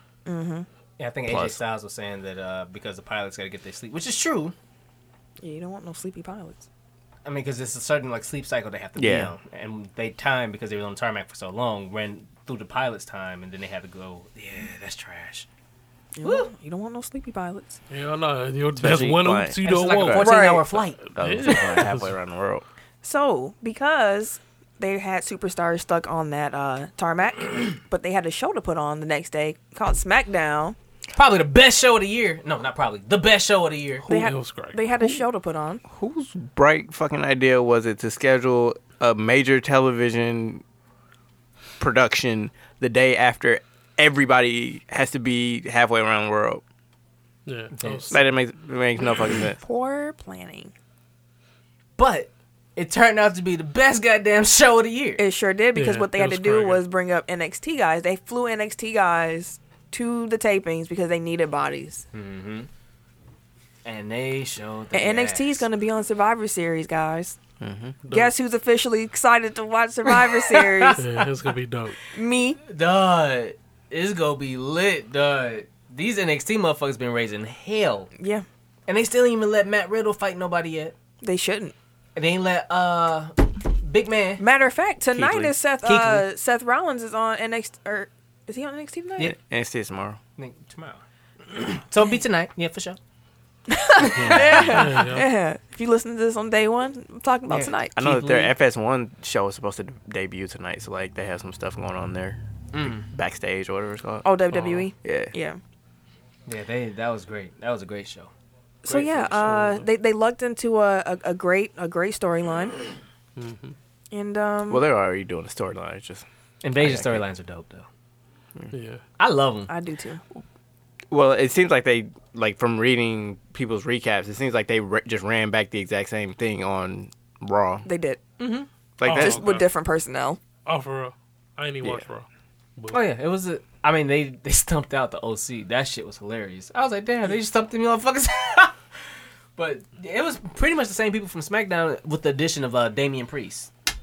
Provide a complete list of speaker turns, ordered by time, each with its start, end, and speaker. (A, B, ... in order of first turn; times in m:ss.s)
0:00.3-0:00.7 A
0:01.0-0:04.5 B
0:01.3-0:01.6 C
0:05.4-0:06.7 A
0:07.2-0:15.5 B
0:09.0-0:09.3 C
0:16.2-0:17.8 A
0:16.2-0:16.5 B
0:17.9-0:20.5 D
0:18.8-0:20.2 C
0:19.6-0:21.0 B
0:20.2-0:20.7 A
0:21.1-0:22.2 D
0:21.1-0:22.6 C
0:23.0-0:30.8 A
0:31.2-0:34.1 B
0:34.1-0:35.8 A
0:34.1-0:34.8 D
0:35.9-0:40.6 C
0:41.8-0:46.6 C
0:47.5-0:48.3 D
0:47.7-0:48.2 B
0:48.1-0:49.6 C
0:49.6-0:50.7 A
0:52.0-0:55.2 B
0:55.2-1:02.0 A
0:55.8-0:56.8 D
1:02.1-1:02.7 B
1:03.8-1:05.7 B
1:04.9-1:07.4 A
1:07.6-1:08.0 C
1:08.1-1:11.0 A
1:10.1-1:11.2 B
1:11.0-1:12.0 D
1:12.1-1:12.6 A
1:12.7-1:18.1 B
1:18.2-1:18.4 A
1:18.9-1:21.0 B
1:21.2-1:21.7 A
1:22.2-1:24.4 B
1:24.4-1:29.3 A
1:25.1-1:26.3 B
1:29.2-1:30.2 C
1:30.4-1:33.0 B
1:33.7-1:38.0 A
1:34.0-1:34.8 B
1:34.2-1:35.3 D
1:37.5-1:38.4 B
1:38.0-1:44.4 C
1:42.7-1:43.1 B
1:44.2-1:45.6 A
1:44.5-1:44.9 B
1:45.0-1:45.3 C
1:46.5-1:48.3 B
1:48.8-1:49.8 B
1:48.8-1:52.8 A
1:53.4-1:53.8 D
1:54.1-1:54.8 A
1:54.7-1:56.2 C
1:56.6-1:57.9 B
1:56.8-1:57.2 C
1:58.7-1:59.0 D
1:59.2-1:59.7 B
1:59.7-2:00.2 A
2:01.1-2:07.9 C
2:07.9-2:10.4 A
2:09.0-2:09.4 C
2:09.0-2:09.6 D
2:10.6-2:13.0 D
2:11.8-2:12.1 C
2:12.9-2:18.8 B
2:19.6-2:23.7 B